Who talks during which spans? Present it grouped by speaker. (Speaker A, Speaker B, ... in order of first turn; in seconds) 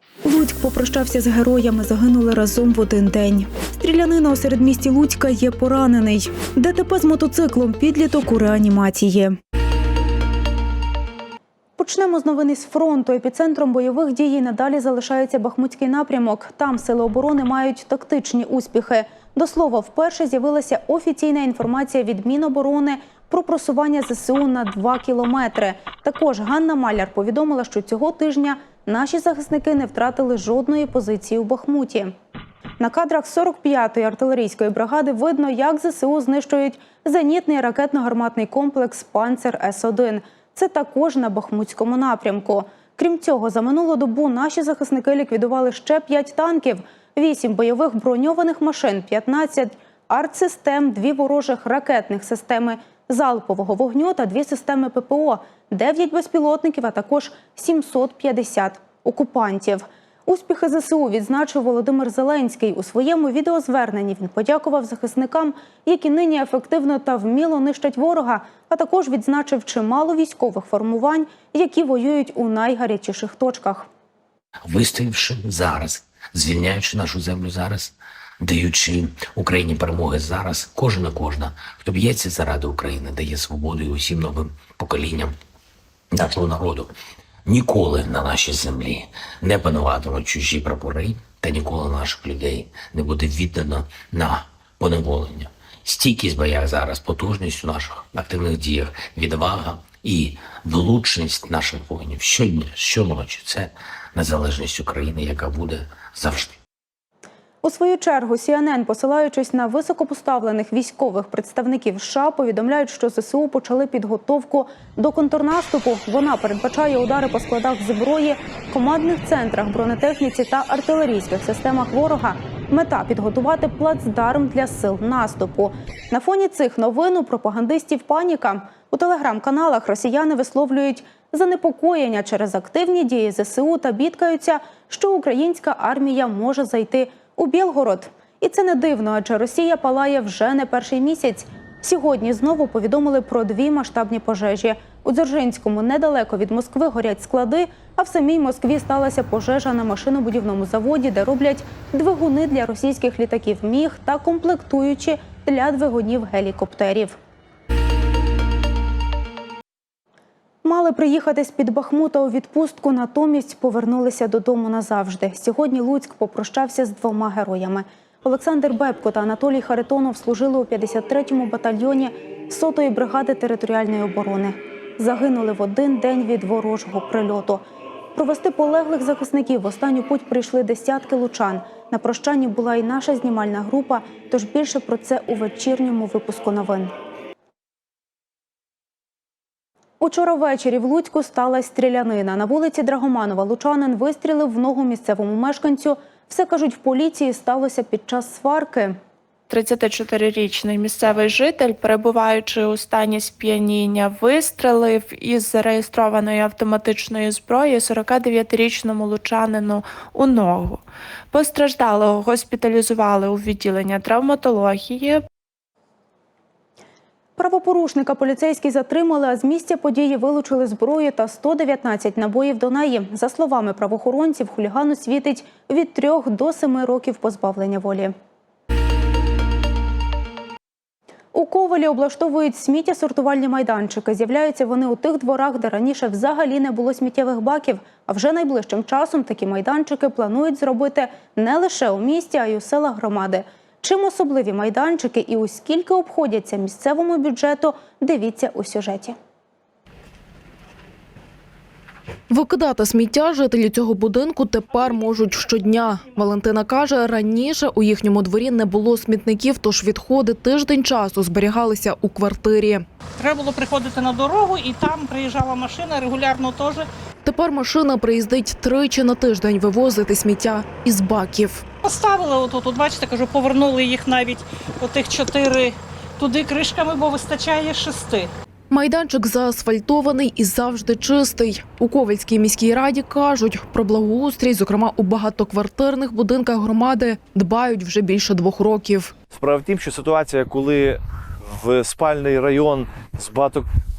Speaker A: 0.2-9.3, 11.8-32.1, 32.8-73.9, 107.6-157.2, 160.6-177.6, 178.1-186.9, 190.0-199.0, 217.4-228.1, 231.3-249.1
Speaker B: 74.7-85.3, 86.1-86.9, 87.5-106.6
Speaker C: 199.5-215.2
Speaker D: 252.3-262.8, 267.2-271.6, 278.7-289.1
Speaker E: 263.2-266.9, 271.8-278.3
Speaker F: 289.3-293.6